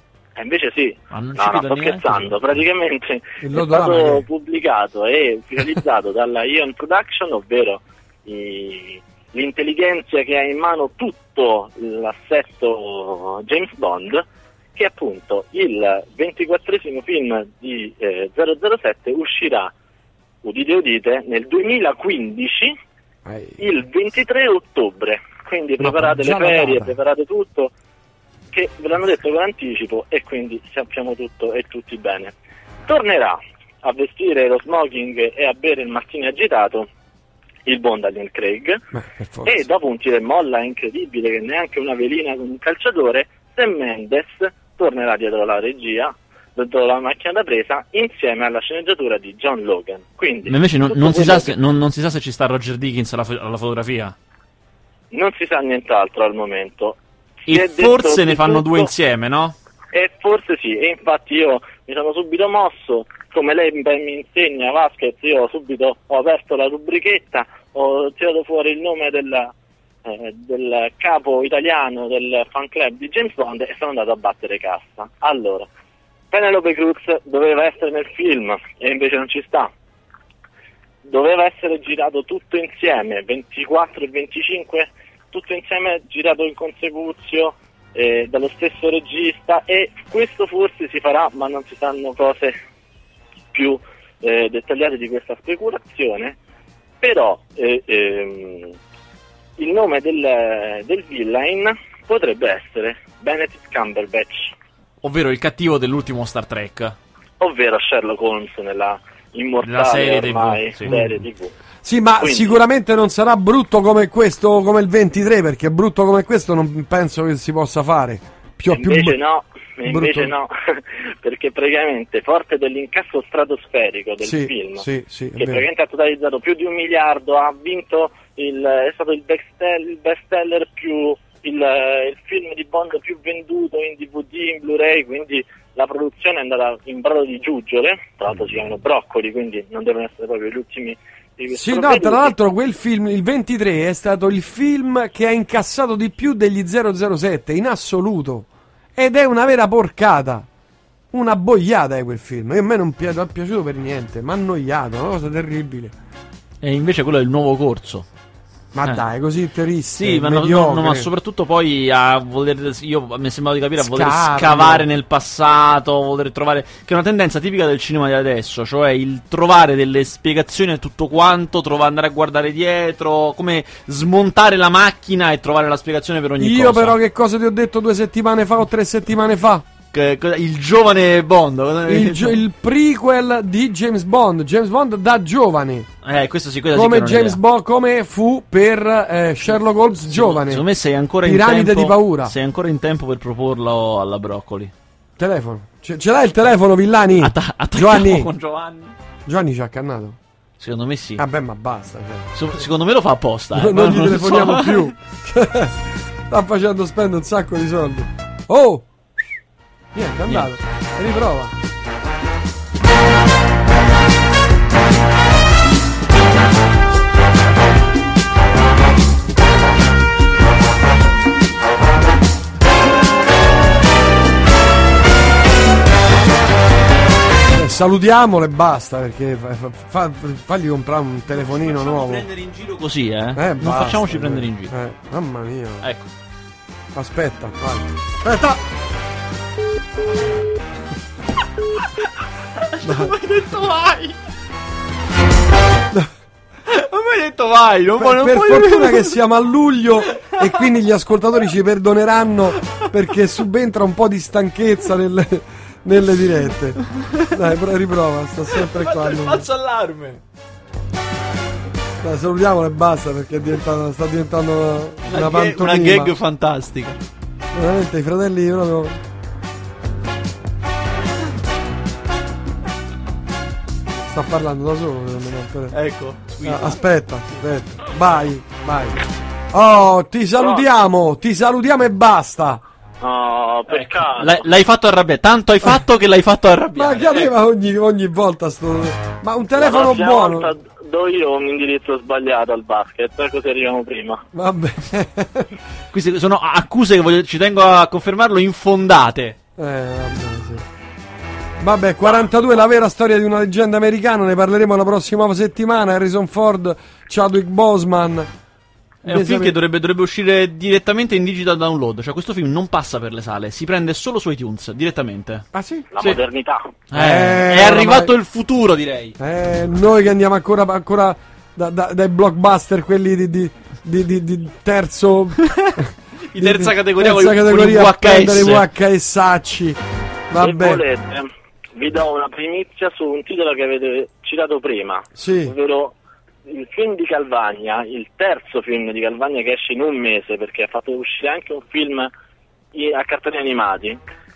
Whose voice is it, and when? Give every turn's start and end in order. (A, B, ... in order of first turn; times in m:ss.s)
0:00.4-0:14.2 A
0:01.1-0:02.4 B
0:03.4-0:04.2 C
0:14.8-0:19.7 A
0:20.4-0:22.7 A
0:23.2-0:23.7 C
0:23.6-0:27.7 A
0:25.8-0:27.0 C
0:28.5-0:32.3 A
0:32.8-0:36.9 A
0:37.6-0:38.8 A
0:38.9-0:39.6 C
0:39.4-0:51.5 A
0:50.4-0:54.1 B
0:55.1-0:58.9 A
0:57.5-0:59.5 B
0:59.9-1:09.5 A
1:10.0-1:15.7 A
1:16.3-1:19.7 A
1:21.0-1:32.6 A
1:33.5-1:36.4 A
1:37.0-1:38.7 A
1:39.6-1:44.5 A
1:45.0-1:47.0 B
1:47.4-1:51.5 A
1:49.6-1:51.0 B
1:50.9-1:51.2 C
1:51.8-1:59.1 C
1:52.2-1:52.6 A
1:58.7-2:22.3 A
1:59.9-2:00.3 C
2:04.2-2:05.6 C
2:21.5-2:30.5 C
2:31.1-2:35.9 C
2:36.6-2:38.1 B
2:38.7-2:41.1 C
2:39.9-2:57.0 B
2:43.8-2:44.8 C
2:56.4-2:59.6 C
2:59.9-3:02.4 B
3:01.9-3:05.9 C
3:06.0-3:07.4 B
3:06.7-3:10.6 C
3:10.1-3:14.7 B
3:11.2-3:12.3 C
3:15.2-3:18.3 C
3:17.2-3:18.9 B
3:19.2-3:20.2 C
3:20.6-3:21.2 B
3:21.2-3:22.3 C
3:22.3-3:24.9 B
3:23.5-3:28.9 C
3:29.9-3:31.5 C
3:30.3-3:30.5 B
3:47.5-3:52.2 C
3:51.3-3:54.7 B
3:53.4-3:55.8 C
3:55.8-3:56.1 B
3:56.9-3:58.6 C
4:01.8-4:02.0 B
4:02.6-4:04.2 B
4:02.8-4:03.1 C
4:06.7-4:09.1 B
4:08.0-4:19.4 C
4:10.2-4:10.6 B
4:17.0-4:17.3 B
4:18.5-4:20.2 B
4:22.0-4:26.1 C
4:25.1-4:27.0 B
4:27.5-4:29.0 C
4:34.1-4:35.7 C
4:35.7-4:37.4 B
4:36.4-4:39.0 C
4:39.5-4:42.6 C
4:40.4-4:40.7 A
4:43.0-4:44.4 A
4:43.7-4:47.3 B
4:46.8-4:50.5 C
4:49.6-4:54.2 A
4:54.3-4:55.6 C
4:55.9-4:59.4 B
4:59.6-5:00.6 C
5:01.6-5:08.3 C
5:09.0-5:09.5 C
5:09.0-5:15.4 B
5:15.5-5:15.9 C
5:15.9-5:16.7 A
5:16.9-5:19.2 B
5:16.9-5:18.1 C
5:19.2-5:29.8 C
5:25.4-5:28.6 B
5:30.3-5:30.8 C
5:30.4-5:35.9 A
5:35.2-5:35.5 C
5:36.5-5:42.1 A
5:42.7-5:44.0 A